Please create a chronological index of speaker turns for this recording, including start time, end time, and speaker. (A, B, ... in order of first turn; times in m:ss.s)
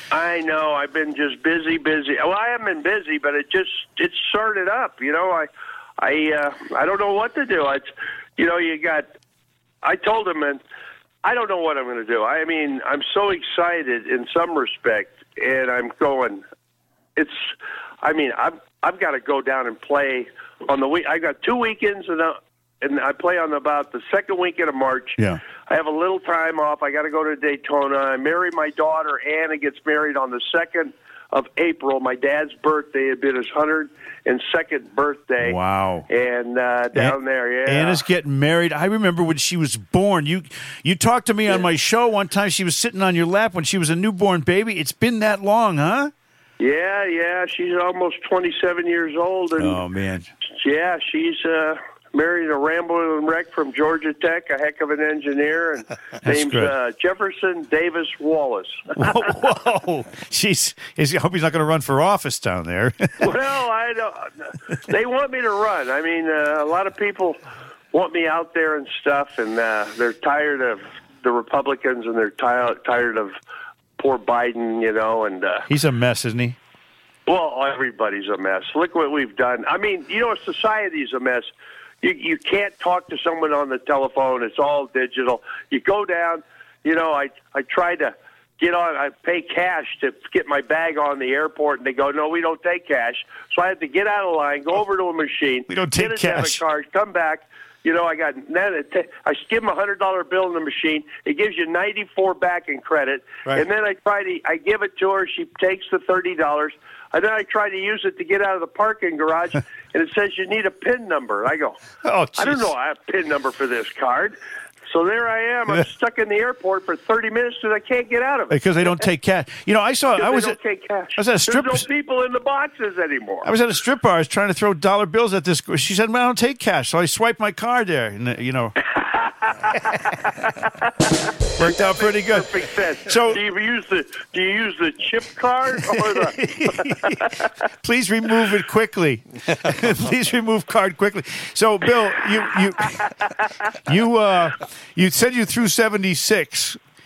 0:00.1-0:09.1 A
0:09.8-0:10.6 A
0:11.2-0:16.4 A
0:18.0-0:35.6 A
0:35.4-0:36.1 B
0:36.1-0:38.0 A
0:36.9-0:46.1 B
0:46.6-0:49.8 A
0:49.6-0:50.3 B
0:50.6-0:59.0 A
0:56.2-0:56.7 B
0:58.9-1:03.2 B
1:03.2-1:04.3 A
1:04.9-1:07.4 A
1:07.9-1:13.3 A
1:14.0-1:15.6 A
1:15.7-1:16.6 B
1:17.3-1:21.5 A
1:22.0-1:51.8 A
1:35.7-1:36.6 B
1:52.0-1:52.7 B
1:52.4-1:54.4 A
1:54.9-1:58.9 A
1:58.5-2:00.6 B
2:00.2-2:03.5 A
2:01.2-2:01.9 B
2:03.4-2:08.8 B
2:09.4-2:10.0 A
2:11.6-2:12.5 B
2:11.6-2:16.4 A
2:13.0-2:13.4 B
2:16.2-2:17.2 B
2:17.8-2:23.0 B
2:23.8-2:26.8 B